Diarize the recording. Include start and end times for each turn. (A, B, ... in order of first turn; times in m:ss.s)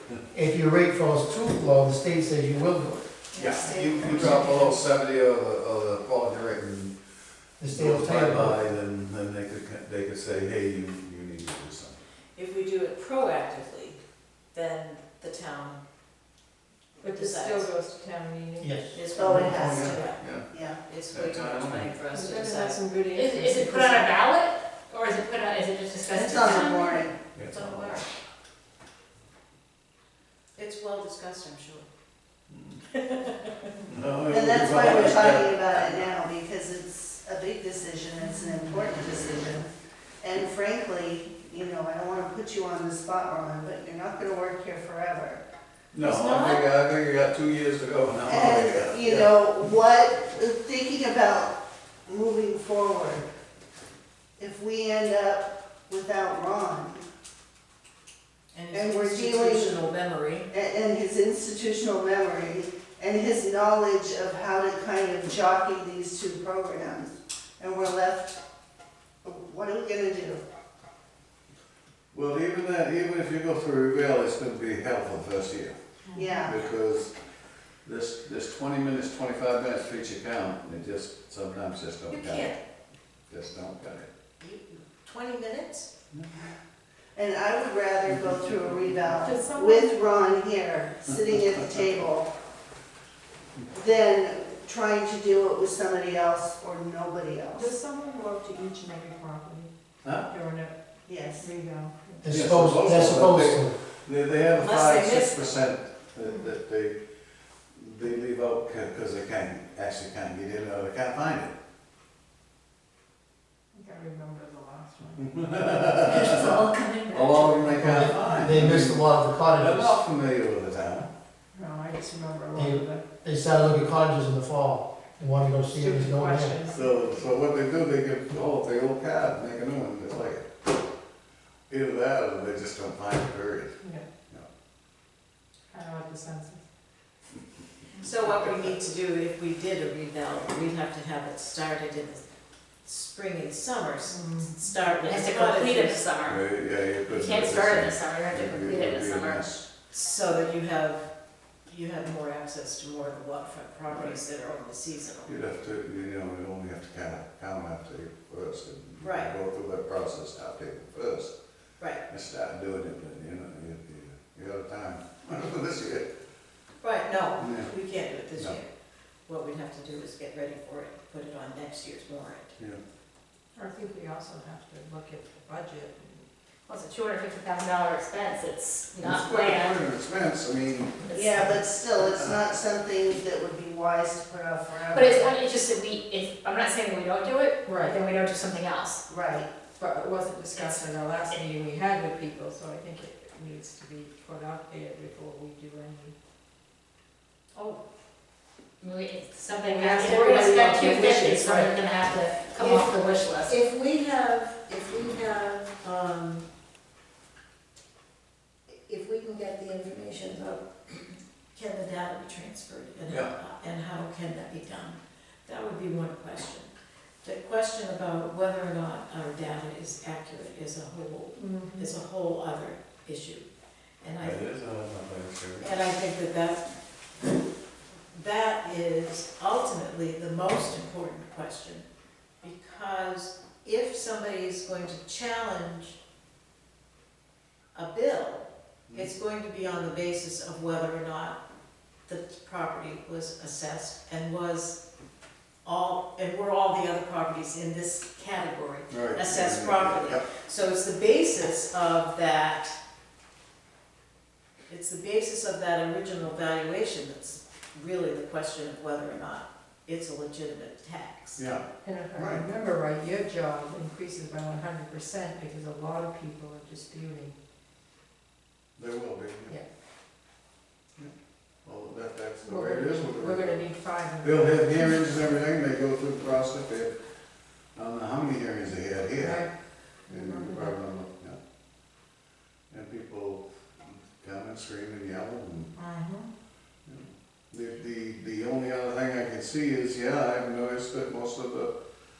0:00.3-0:03.1 A
0:03.3-0:04.3 B
0:03.4-0:04.7 C
0:03.4-0:07.0 D
0:04.1-0:04.5 A
0:07.6-0:08.6 A
0:07.7-0:12.0 D
0:12.4-0:14.0 B
0:14.5-0:15.8 B
0:17.0-0:19.0 C
0:17.0-0:17.7 B
0:18.6-0:19.5 A
0:18.9-0:22.8 B
0:19.1-0:20.8 E
0:19.5-0:20.5 D
0:21.1-0:22.0 D
0:22.1-0:24.1 C
0:23.1-0:27.1 F
0:26.0-0:27.2 E
0:27.3-0:28.0 D
0:27.5-0:28.1 B
0:30.6-0:31.9 B
0:32.5-0:32.8 D
0:33.0-0:33.6 B
0:33.9-0:36.1 D
0:34.3-0:45.4 E
0:45.9-0:49.3 D
0:46.0-0:46.6 B
0:48.2-0:53.3 E
0:54.4-0:57.0 E
0:58.5-1:00.5 B
0:58.7-0:59.9 E
1:00.5-1:08.4 E
1:09.2-1:10.4 E
1:12.1-1:15.8 D
1:16.1-1:16.5 C
1:16.1-1:16.6 E
1:16.4-1:17.1 D
1:17.9-1:22.5 D
1:22.1-1:22.6 B
1:23.3-1:24.1 D
1:24.4-1:25.9 B
1:27.2-1:32.3 E
1:28.3-1:29.1 D
1:29.2-1:30.0 C
1:33.7-1:37.7 E
1:37.5-1:39.7 C
1:40.3-1:40.8 C
1:41.1-1:41.5 E
1:41.4-1:42.3 C
1:42.2-1:43.8 A
1:42.3-1:47.0 D
1:44.5-1:45.6 B
1:47.8-1:51.5 D
1:53.7-1:56.6 C
1:55.2-2:01.1 D
1:56.1-1:57.0 B
1:57.4-1:58.4 C
1:57.8-2:00.0 A
2:01.5-2:03.0 C
2:02.6-2:06.6 A
2:05.7-2:07.2 C
2:06.7-2:10.4 D
2:11.7-2:13.8 D
2:13.8-2:14.1 C
2:15.7-2:16.6 C
2:18.0-2:22.2 B
2:22.8-2:26.2 B
2:24.1-2:24.7 C
2:25.0-2:26.4 F
2:26.3-2:29.6 D
2:27.1-2:29.6 F
2:29.9-2:31.1 B
2:31.7-2:35.6 B
2:35.3-2:41.3 D
2:39.0-2:39.3 B
2:42.1-2:46.1 D
2:46.8-2:48.7 B
2:47.4-2:47.7 D
2:49.3-2:52.6 B
2:53.6-2:56.3 C
2:56.7-2:59.8 F
2:59.0-3:01.5 D
3:01.1-3:01.4 F
3:01.1-3:05.3 E
3:02.0-3:02.4 D
3:04.9-3:09.0 F
3:07.6-3:08.0 C
3:09.1-3:09.5 E
3:09.8-3:16.1 C
3:10.6-3:10.8 F
3:18.8-3:23.6 F
3:19.6-3:21.8 C
3:22.6-3:26.5 B
3:28.7-3:36.7 B
3:37.2-3:43.5 B
3:41.4-3:41.9 C
3:44.0-3:44.4 B
3:44.2-3:45.7 D
3:45.6-3:46.7 B
3:48.1-3:51.9 B
3:52.4-3:56.0 B
3:57.7-4:01.4 B
4:02.1-4:04.8 B
4:05.6-4:12.8 B
4:08.9-4:10.3 D
4:14.7-4:21.5 B
4:21.4-4:21.6 D
4:21.8-4:27.3 C
4:22.2-4:22.4 D
4:28.8-4:29.6 D
4:31.6-4:33.6 D
4:32.4-4:35.0 C
4:34.2-4:36.9 D
4:37.8-4:39.5 D
4:39.2-4:39.5 C
4:40.1-4:40.7 C
4:40.1-4:41.4 D
4:42.7-4:45.7 D
4:45.8-4:46.3 C
4:46.9-4:51.7 D